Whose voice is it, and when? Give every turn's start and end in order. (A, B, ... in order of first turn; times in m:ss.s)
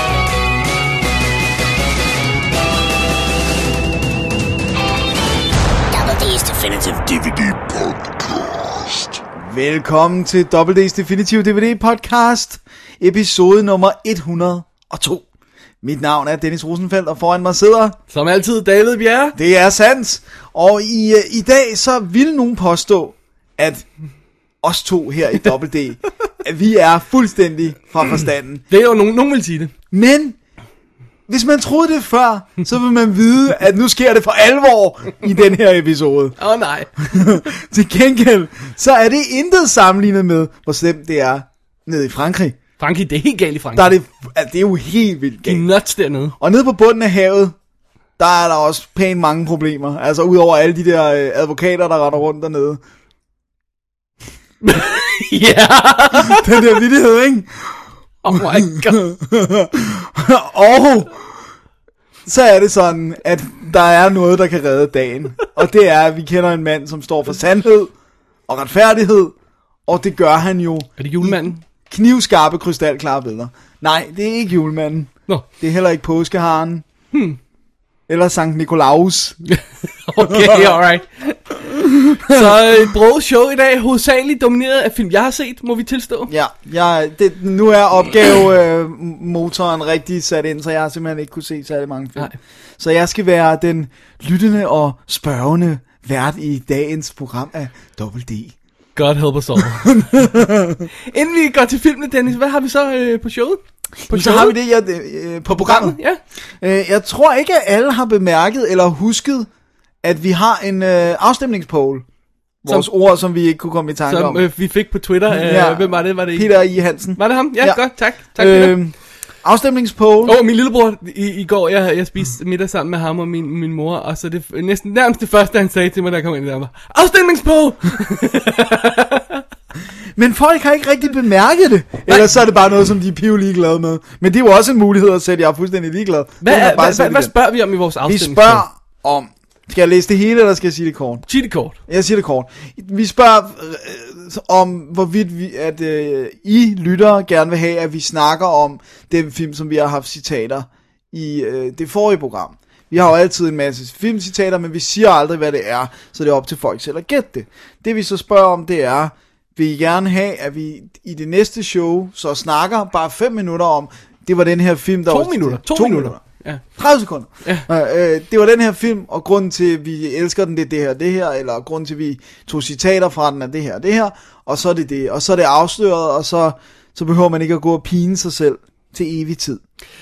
0:05.9-0:09.2 A
0:09.4-0:15.2 B
0:15.8-0:18.0 B
0:18.1-0:19.4 C
0:19.3-0:23.9 B
0:24.6-0:28.6 B
0:28.7-0:29.7 C
0:29.9-0:30.4 B
0:31.3-0:36.4 B
0:36.4-0:37.3 C
0:37.1-0:42.6 B
0:42.8-0:43.9 C
0:43.7-0:45.6 B
0:45.5-0:46.4 C
0:46.4-0:47.6 B
0:48.2-0:52.8 B
0:54.6-0:56.6 C
0:56.2-0:57.8 B
0:58.2-0:59.1 C
0:58.3-1:01.3 B
1:02.3-1:07.9 B
1:08.5-1:09.3 B
1:09.9-1:16.8 B
1:11.0-1:11.6 C
1:17.1-1:17.4 C
1:18.1-1:19.4 B
1:19.5-1:26.3 C
1:20.2-1:20.8 B
1:22.3-1:22.7 B
1:26.3-1:38.5 B
1:39.0-1:40.1 C
1:39.6-1:40.9 B
1:41.1-1:44.6 C
1:44.1-1:46.0 B
1:45.5-1:46.2 C
1:46.6-1:49.5 B
1:50.0-1:52.0 B
1:52.6-1:54.5 B
1:54.1-1:56.5 C
1:55.3-2:00.4 B
1:57.2-1:58.8 C
2:00.2-2:09.4 C
2:10.2-2:17.3 B
2:16.4-2:18.6 C
2:18.0-2:21.2 B
2:21.3-2:21.8 C
2:21.9-2:46.2 B
2:45.1-2:46.6 C
2:46.8-2:59.6 B